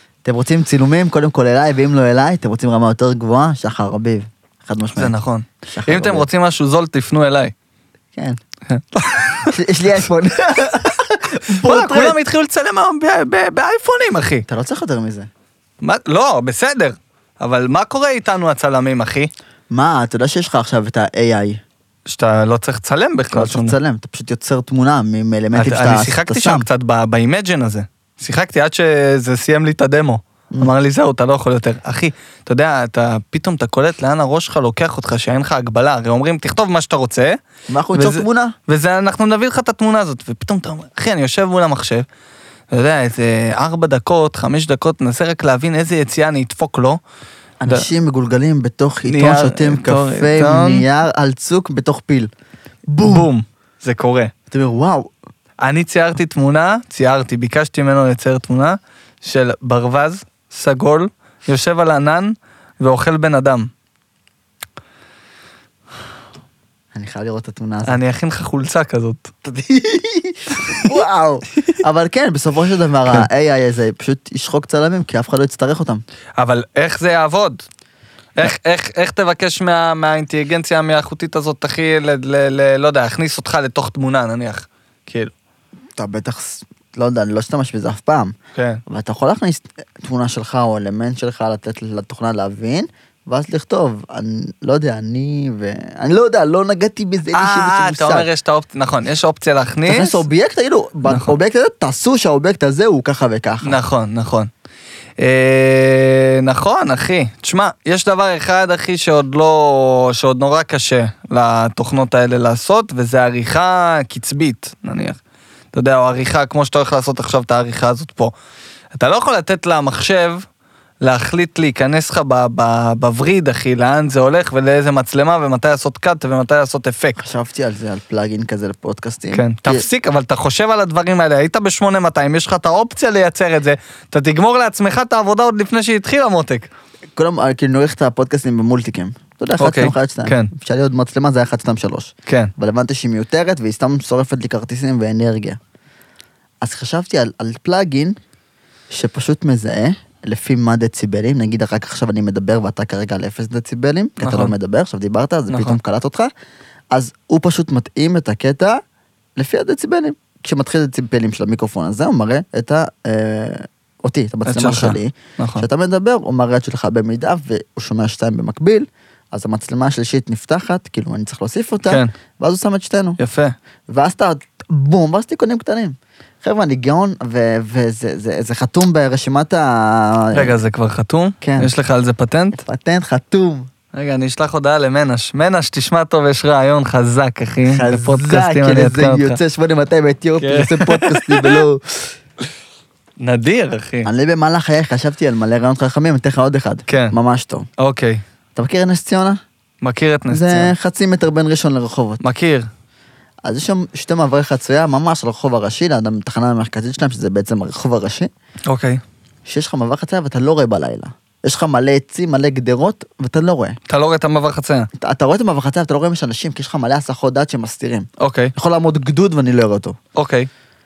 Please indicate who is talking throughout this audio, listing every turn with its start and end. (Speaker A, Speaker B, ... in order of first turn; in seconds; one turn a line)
Speaker A: 0.2-5.1
Speaker B: 4.9-7.5
Speaker A: 5.7-6.2
Speaker B: 8.7-9.6
Speaker A: 9.4-12.2
Speaker B: 11.5-14.4
Speaker A: 14.5-15.3
Speaker B: 15.8-19.3
Speaker A: 19.7-21.6
Speaker B: 22.1-23.8
Speaker A: 23.3-26.7
Speaker B: 25.5-37.4
Speaker A: 37.7-38.5
Speaker B: 37.9-42.1
Speaker B: 42.7-47.0
Speaker A: 47.6-52.3
Speaker B: 49.0-50.8
Speaker A: 52.9-53.3
Speaker B: 53.0-54.3
Speaker A: 54.5-55.1
Speaker B: 55.6-63.7
Speaker A: 66.9-68.0
Speaker B: 67.8-69.3
Speaker A: 69.4-76.0
Speaker B: 76.4-77.6
Speaker B: 78.3-85.3
Speaker A: 86.0-88.3
Speaker B: 88.5-88.8
Speaker A: 88.9-98.3
Speaker B: 97.3-100.2
Speaker A: 99.8-103.8
Speaker B: 101.1-101.3
Speaker B: 103.6-104.5
Speaker B: 105.2-115.2
Speaker B: 115.7-118.3
Speaker B: 118.9-120.5
Speaker B: 121.0-127.2
Speaker A: 127.2-129.8
Speaker B: 129.3-136.7
Speaker A: 137.2-145.6
Speaker B: 139.6-140.5
Speaker B: 142.3-142.5
Speaker A: 146.6-148.2
Speaker A: 148.9-156.3
Speaker B: 154.2-154.5
Speaker B: 155.5-155.8
Speaker A: 156.9-158.8
Speaker A: 159.4-173.2
Speaker B: 164.4-165.7
Speaker B: 171.8-172.1
Speaker B: 173.2-173.6
Speaker A: 173.9-180.6
Speaker B: 180.3-182.6
Speaker A: 181.4-181.7
Speaker A: 182.6-183.7
Speaker B: 183.9-189.4
Speaker A: 187.7-192.1
Speaker B: 190.4-191.6
Speaker B: 193.2-194.1
Speaker A: 194.0-197.7
Speaker B: 196.9-197.1
Speaker B: 197.8-198.2
Speaker A: 198.5-199.4
Speaker B: 199.8-200.7
Speaker A: 200.3-202.2
Speaker B: 202.2-202.7
Speaker A: 203.4-208.3
Speaker B: 208.7-209.0
Speaker A: 209.5-213.8
Speaker B: 213.9-214.9
Speaker A: 215.0-220.0
Speaker B: 218.2-218.5
Speaker B: 220.1-220.5